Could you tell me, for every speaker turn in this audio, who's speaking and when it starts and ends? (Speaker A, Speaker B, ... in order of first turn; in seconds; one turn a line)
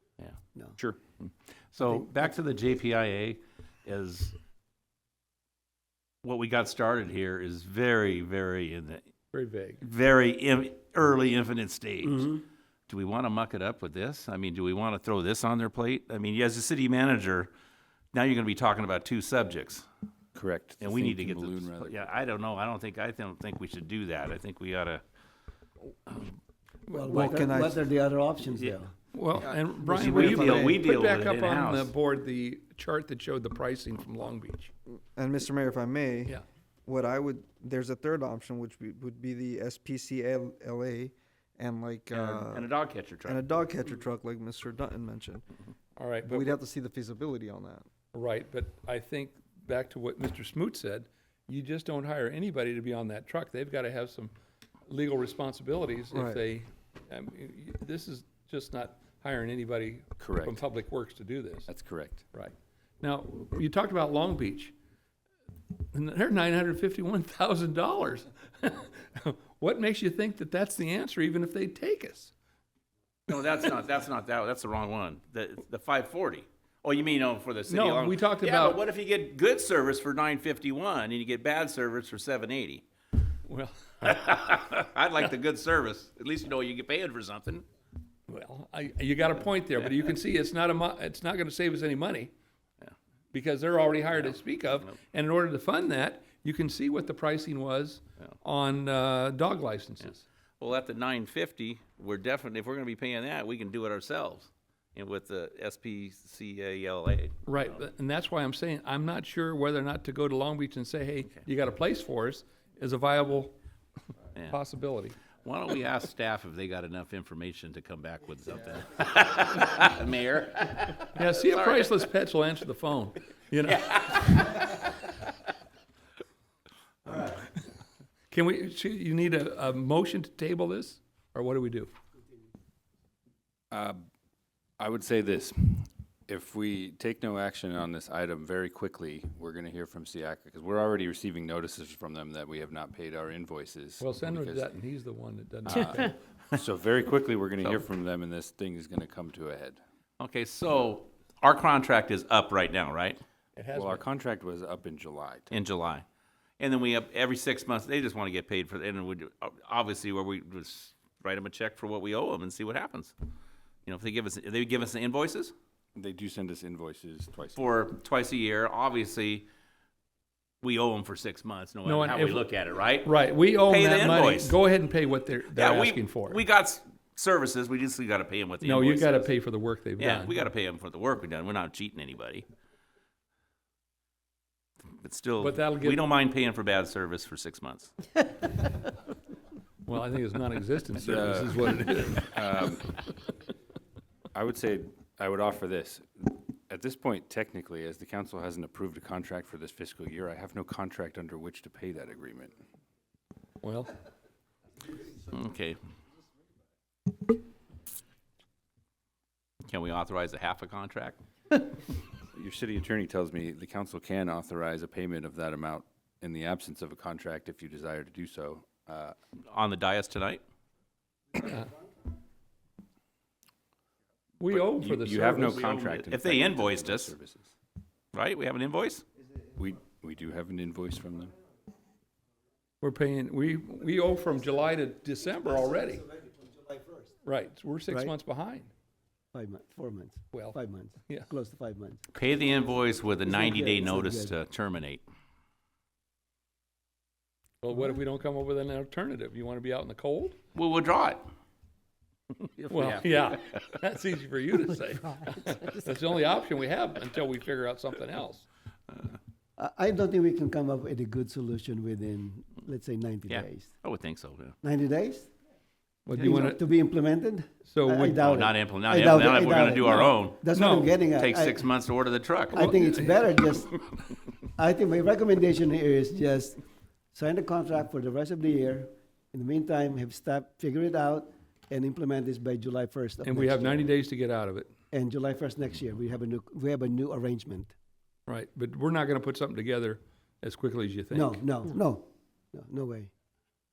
Speaker A: 0.2-4.4
Speaker A: 6.2-9.0
Speaker B: 9.3-9.8
Speaker A: 9.8-17.5
Speaker A: 18.1-19.9
Speaker C: 20.3-21.9
Speaker A: 20.8-25.0
Speaker A: 26.1-26.4
Speaker D: 26.9-28.9
Speaker B: 26.9-27.2
Speaker E: 27.1-27.8
Speaker B: 29.1-34.7
Speaker E: 29.7-30.8
Speaker A: 29.9-31.9
Speaker E: 34.9-42.7
Speaker A: 42.1-43.5
Speaker E: 43.2-45.5
Speaker B: 46.0-46.5
Speaker E: 46.2-47.9
Speaker B: 48.1-54.3
Speaker B: 54.9-61.7
Speaker E: 56.1-56.4
Speaker C: 60.2-60.6
Speaker C: 61.7-62.2
Speaker B: 62.3-64.7
Speaker B: 65.9-72.3
Speaker A: 73.3-82.8
Speaker B: 77.7-78.8
Speaker B: 83.5-84.3
Speaker A: 84.0-87.6
Speaker B: 88.3-92.3
Speaker B: 93.3-100.2
Speaker A: 94.1-95.0
Speaker A: 100.6-107.4
Speaker B: 107.5-113.5
Speaker B: 114.5-115.2
Speaker A: 115.4-122.0
Speaker B: 121.1-124.5
Speaker A: 123.7-124.9
Speaker B: 128.3-131.9
Speaker C: 133.7-134.0
Speaker C: 134.8-144.7
Speaker B: 144.0-146.1
Speaker C: 145.7-149.8
Speaker A: 147.6-147.8
Speaker A: 150.2-153.2
Speaker B: 153.6-154.0
Speaker C: 153.7-155.5
Speaker A: 155.5-156.0
Speaker A: 156.6-163.1
Speaker A: 163.8-165.5
Speaker C: 165.9-167.6
Speaker A: 167.6-169.4
Speaker A: 170.6-174.6
Speaker B: 171.8-172.5
Speaker B: 173.0-176.4
Speaker A: 175.5-179.3
Speaker B: 178.6-180.5
Speaker A: 180.0-182.5
Speaker A: 185.0-188.2
Speaker B: 185.4-186.0
Speaker B: 189.8-192.3
Speaker C: 191.0-192.9
Speaker C: 194.3-202.6
Speaker B: 203.6-203.9
Speaker A: 205.2-205.8
Speaker A: 209.7-211.2
Speaker C: 212.3-219.1
Speaker A: 219.5-220.4
Speaker B: 221.3-221.7
Speaker B: 224.4-225.6
Speaker C: 224.4-227.5
Speaker A: 225.5-227.2
Speaker A: 228.1-229.0
Speaker C: 229.6-231.3
Speaker B: 232.8-236.0
Speaker D: 235.7-237.1
Speaker B: 237.2-238.7
Speaker D: 237.9-238.1
Speaker D: 239.3-242.1
Speaker A: 242.1-245.0
Speaker D: 243.2-244.3
Speaker B: 247.6-250.4
Speaker A: 250.5-251.2
Speaker A: 252.4-253.5
Speaker B: 252.7-258.5
Speaker D: 259.6-263.7
Speaker A: 263.3-264.6
Speaker D: 264.6-265.3
Speaker B: 266.1-266.6
Speaker D: 266.1-271.7
Speaker B: 267.7-268.2
Speaker A: 268.2-272.7
Speaker B: 270.6-270.9
Speaker D: 272.5-273.8
Speaker B: 272.6-273.3
Speaker D: 274.6-276.6
Speaker D: 277.1-283.9
Speaker B: 283.2-284.7
Speaker D: 284.9-287.7
Speaker B: 288.3-291.4
Speaker D: 291.1-293.1